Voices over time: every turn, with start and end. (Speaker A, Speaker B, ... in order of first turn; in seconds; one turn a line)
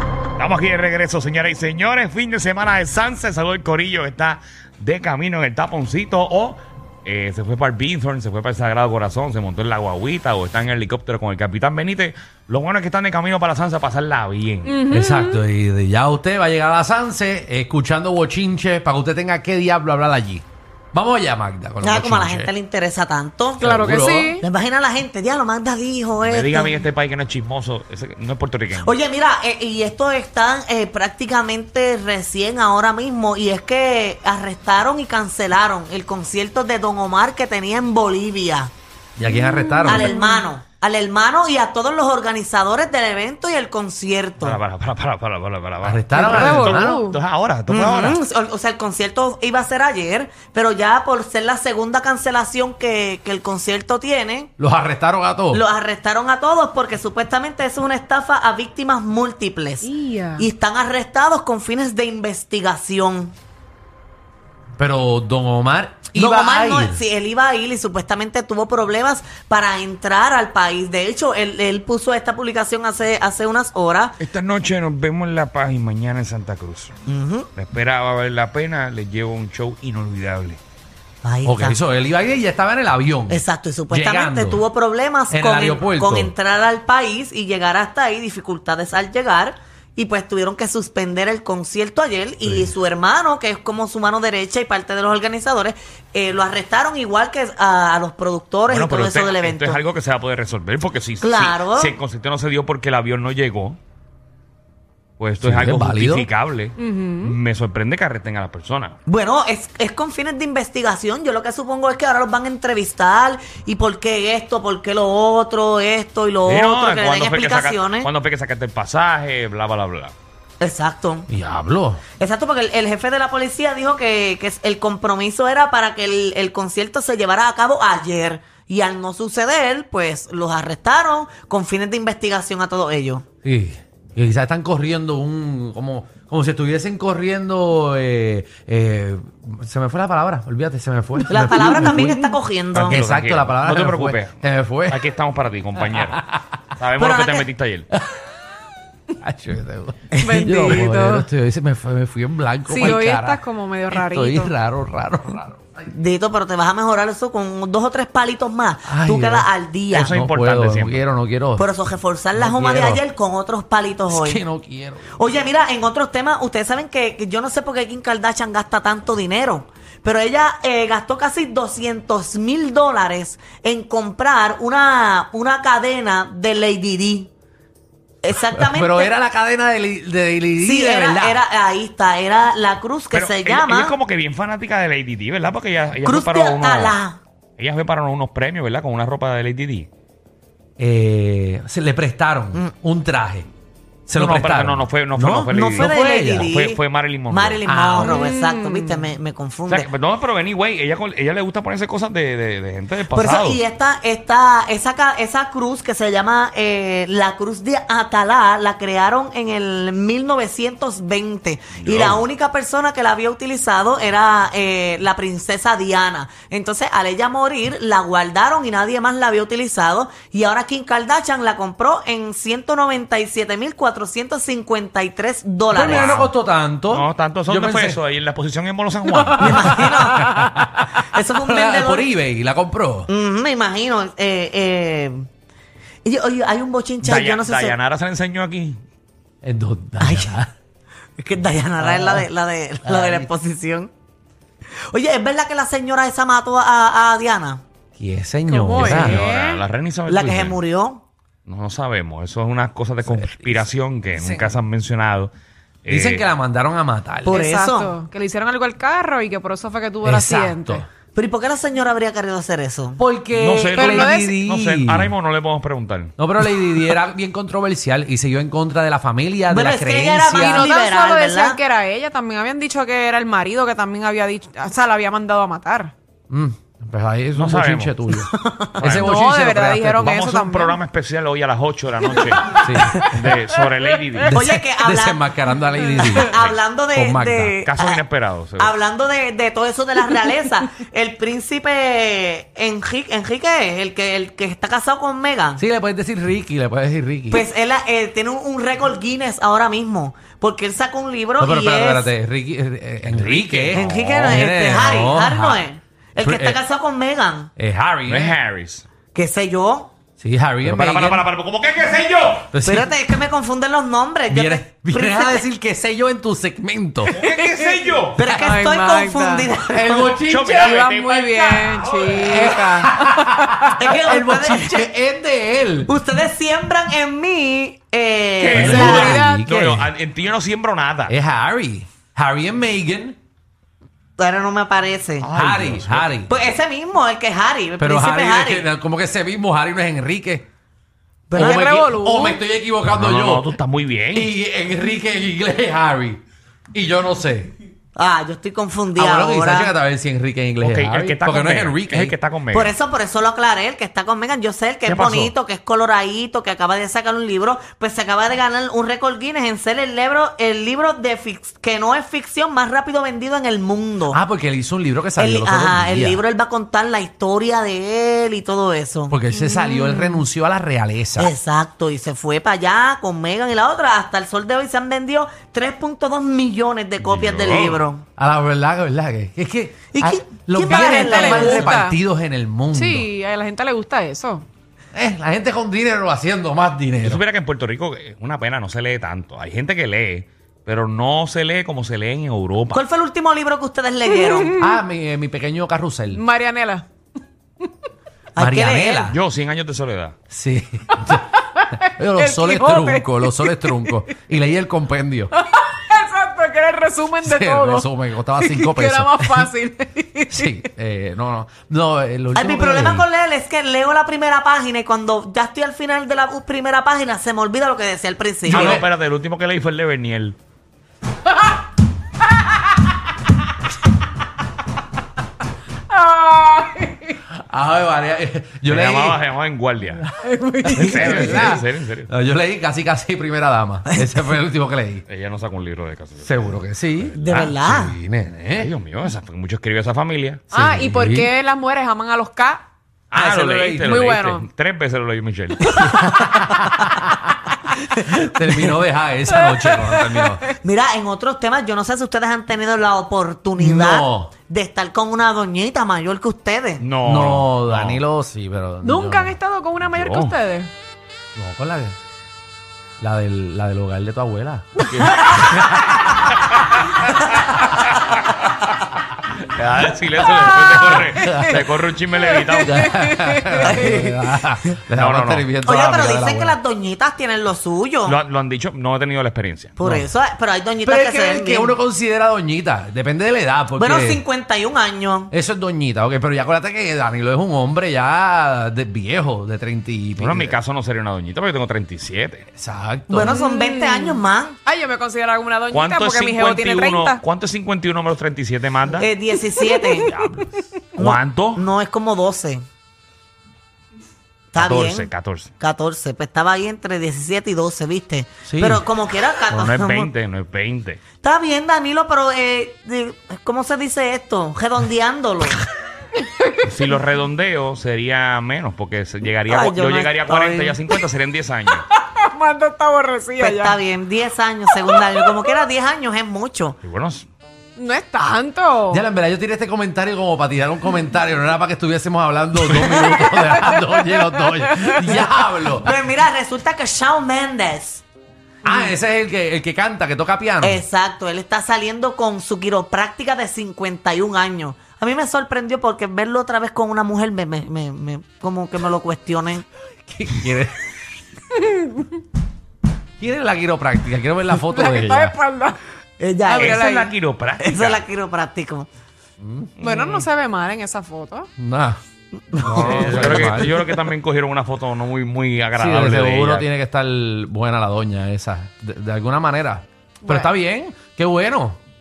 Speaker A: 0.4-14.8
Speaker B: 14.6-15.4
Speaker C: 14.9-22.5
Speaker D: 21.8-23.6
Speaker C: 23.6-24.4
Speaker B: 23.6-24.4
Speaker D: 24.4-26.8
Speaker A: 26.2-29.0
Speaker D: 28.7-38.7
Speaker C: 39.2-40.2
Speaker B: 39.3-40.5
Speaker D: 39.8-44.6
Speaker A: 44.4-48.2
Speaker C: 45.8-47.0
Speaker B: 46.1-47.2
Speaker D: 47.7-54.5
Speaker C: 54.6-55.6
Speaker D: 55.5-63.3
Speaker B: 59.8-60.5
Speaker C: 64.8-67.0
Speaker D: 66.1-74.2
Speaker A: 74.2-76.9
Speaker D: 77.1-77.5
Speaker A: 77.5-80.6
Speaker D: 81.2-81.8
Speaker C: 81.4-84.6
Speaker D: 83.3-99.8
Speaker C: 85.3-86.3
Speaker A: 98.7-103.8
Speaker D: 101.2-102.0
Speaker A: 105.2-109.0
Speaker C: 105.4-106.3
Speaker B: 106.8-107.4
Speaker D: 109.0-118.1
Speaker A: 116.4-120.1
Speaker D: 120.6-121.3
Speaker C: 121.3-122.0
Speaker D: 122.2-133.2
Speaker C: 133.4-145.1
Speaker D: 141.2-143.0
Speaker A: 142.7-146.2
Speaker C: 145.8-146.4
Speaker A: 146.8-147.9
Speaker D: 147.0-147.5
Speaker C: 147.9-148.2
Speaker C: 149.2-155.7
Speaker B: 150.2-151.3
Speaker B: 152.7-154.5
Speaker D: 155.9-160.1
Speaker C: 158.8-161.7
Speaker A: 159.9-161.1
Speaker D: 161.6-164.4
Speaker C: 162.3-163.0
Speaker C: 164.1-165.2
Speaker D: 165.2-177.3
Speaker D: 178.2-179.1
Speaker C: 178.5-181.4
Speaker D: 180.6-183.9
Speaker A: 183.1-186.9
Speaker D: 186.0-187.2
Speaker A: 187.6-189.9
Speaker C: 190.8-193.5
Speaker C: 194.1-196.5
Speaker A: 194.1-197.6
Speaker D: 195.5-199.9
Speaker C: 197.7-198.2
Speaker B: 198.0-199.1
Speaker A: 199.7-203.6
Speaker D: 203.1-226.2
Speaker A: 211.7-212.2
Speaker C: 225.7-228.0
Speaker A: 225.7-226.3
Speaker A: 226.9-229.7
Speaker D: 229.3-230.3
Speaker C: 229.4-233.1
Speaker D: 231.0-232.1
Speaker D: 233.1-235.2
Speaker D: 236.0-237.8
Speaker A: 237.0-238.8
Speaker C: 239.4-240.5
Speaker D: 240.0-240.4
Speaker D: 241.2-243.9
Speaker C: 241.8-242.3
Speaker C: 242.8-243.3
Speaker D: 244.9-247.6
Speaker C: 248.0-249.3
Speaker B: 248.5-249.6
Speaker A: 248.8-250.6
Speaker D: 250.1-251.0
Speaker A: 251.4-255.3
Speaker C: 253.0-253.6
Speaker C: 254.2-254.5
Speaker A: 255.8-256.2
Speaker C: 255.9-257.4
Speaker D: 257.2-257.9
Speaker B: 257.3-260.8
Speaker C: 260.0-260.9
Speaker D: 261.1-263.0
Speaker C: 263.0-265.1
Speaker A: 263.3-266.1
Speaker B: 263.7-264.4
Speaker C: 266.2-270.7
Speaker D: 269.5-271.6
Speaker B: 270.3-275.9
Speaker C: 276.3-280.3
Speaker A: 277.4-278.0
Speaker D: 278.1-279.0
Speaker A: 278.8-279.1
Speaker B: 279.0-280.8
Speaker A: 280.1-284.4
Speaker B: 282.4-283.6
Speaker C: 282.5-283.1
Speaker C: 284.3-286.3
Speaker D: 284.3-285.3
Speaker B: 285.9-286.2
Speaker D: 286.0-288.0
Speaker C: 286.9-287.6
Speaker A: 287.6-288.7
Speaker D: 288.6-295.6
Speaker C: 295.6-297.4
Speaker D: 297.3-302.1
Speaker C: 301.4-305.6
Speaker A: 303.1-304.5
Speaker D: 303.7-307.5
Speaker C: 306.2-306.6
Speaker C: 307.6-308.4
Speaker A: 308.1-308.9
Speaker D: 309.1-309.9
Speaker C: 310.2-311.3
Speaker A: 310.6-312.5
Speaker C: 312.5-312.9
Speaker D: 312.6-315.4
Speaker C: 314.3-317.2
Speaker A: 317.1-318.2
Speaker B: 317.2-319.5
Speaker D: 318.2-320.1
Speaker C: 319.7-321.0
Speaker A: 320.3-322.4
Speaker B: 320.5-323.8
Speaker C: 322.1-325.9
Speaker D: 323.8-324.9
Speaker D: 325.9-329.2
Speaker A: 328.4-331.1
Speaker C: 328.5-329.9
Speaker B: 328.7-329.4
Speaker C: 331.1-333.1
Speaker D: 334.2-335.3
Speaker A: 335.2-336.1
Speaker C: 335.3-336.4
Speaker D: 336.3-338.7
Speaker C: 337.8-340.4
Speaker D: 341.3-341.8
Speaker B: 341.3-342.4
Speaker C: 341.4-343.5
Speaker A: 342.9-344.3
Speaker C: 344.1-346.2
Speaker C: 346.7-347.5
Speaker D: 347.9-349.7
Speaker C: 348.9-352.1
Speaker A: 350.6-352.7
Speaker D: 352.5-364.2
Speaker A: 354.9-355.3
Speaker C: 364.1-366.2
Speaker D: 365.2-369.1
Speaker C: 369.1-371.3
Speaker B: 369.4-370.2
Speaker D: 371.2-378.0
Speaker A: 377.0-377.8
Speaker C: 378.2-383.1
Speaker D: 379.9-381.7
Speaker B: 380.6-382.0
Speaker B: 382.7-384.4
Speaker C: 384.9-387.2
Speaker A: 387.0-392.8
Speaker D: 392.7-394.5
Speaker B: 394.1-394.8
Speaker C: 394.6-396.2
Speaker B: 396.1-396.9
Speaker D: 398.4-399.1
Speaker C: 398.4-399.2
Speaker A: 399.1-400.1
Speaker C: 400.3-405.3
Speaker B: 401.6-404.0
Speaker B: 405.4-410.6
Speaker C: 407.2-409.5
Speaker C: 410.3-413.1
Speaker D: 412.3-418.8
Speaker C: 418.4-418.9
Speaker A: 418.5-420.4
Speaker B: 425.9-427.1
Speaker C: 427.3-429.2
Speaker A: 428.7-430.0
Speaker B: 430.2-431.6
Speaker C: 430.6-435.0
Speaker A: 430.8-432.1
Speaker A: 435.1-437.5
Speaker C: 436.2-438.7
Speaker D: 437.2-437.9
Speaker A: 438.5-440.4
Speaker C: 440.5-441.3
Speaker B: 440.5-442.6
Speaker A: 443.1-445.8
Speaker C: 443.1-444.0
Speaker B: 443.8-444.5
Speaker C: 445.8-447.3
Speaker C: 448.0-450.4
Speaker B: 449.3-450.5
Speaker D: 450.6-456.9
Speaker C: 453.6-454.3
Speaker A: 456.8-458.0
Speaker C: 457.0-459.4
Speaker B: 458.8-460.7
Speaker A: 459.9-460.3
Speaker C: 461.3-461.9
Speaker C: 463.0-466.0
Speaker A: 464.9-465.7
Speaker B: 465.0-465.4
Speaker A: 466.4-467.2
Speaker A: 467.8-468.3
Speaker A: 469.5-472.9
Speaker B: 470.4-471.6
Speaker C: 470.5-471.6
Speaker B: 472.3-474.1
Speaker C: 472.6-476.6
Speaker D: 473.6-474.3
Speaker A: 474.9-475.5
Speaker D: 475.6-478.2
Speaker A: 478.0-479.7
Speaker D: 479.8-481.8
Speaker C: 479.8-480.1
Speaker C: 480.8-484.2
Speaker D: 483.8-485.3
Speaker C: 485.3-490.6
Speaker A: 490.2-492.5
Speaker C: 492.6-493.4
Speaker D: 493.1-494.6
Speaker B: 493.2-497.2
Speaker A: 495.7-499.1
Speaker D: 498.9-500.1
Speaker B: 499.3-500.6
Speaker A: 500.1-500.4
Speaker D: 500.9-502.6
Speaker A: 501.0-501.6
Speaker D: 504.5-510.1
Speaker A: 504.5-505.5
Speaker C: 508.4-508.8
Speaker A: 509.5-511.0
Speaker D: 511.2-515.6
Speaker B: 516.2-516.5
Speaker A: 516.6-521.8
Speaker D: 519.5-520.8
Speaker B: 521.9-523.8
Speaker D: 523.4-526.8
Speaker B: 524.7-525.6
Speaker A: 526.8-527.3
Speaker B: 527.8-529.0
Speaker C: 528.9-535.9
Speaker D: 532.9-533.2
Speaker B: 533.0-535.3
Speaker D: 535.8-538.0
Speaker C: 538.6-540.8
Speaker D: 540.6-549.6
Speaker C: 550.1-550.8
Speaker B: 551.5-552.0
Speaker C: 553.2-555.3
Speaker B: 554.5-555.8
Speaker D: 556.2-556.8
Speaker B: 556.5-557.1
Speaker A: 556.5-558.0
Speaker D: 557.6-558.9
Speaker C: 559.4-559.7
Speaker A: 559.8-560.3
Speaker B: 559.8-561.5
Speaker C: 561.6-562.0
Speaker C: 562.5-563.9
Speaker D: 562.6-563.6
Speaker A: 562.6-566.7
Speaker C: 565.8-571.8
Speaker B: 570.2-570.5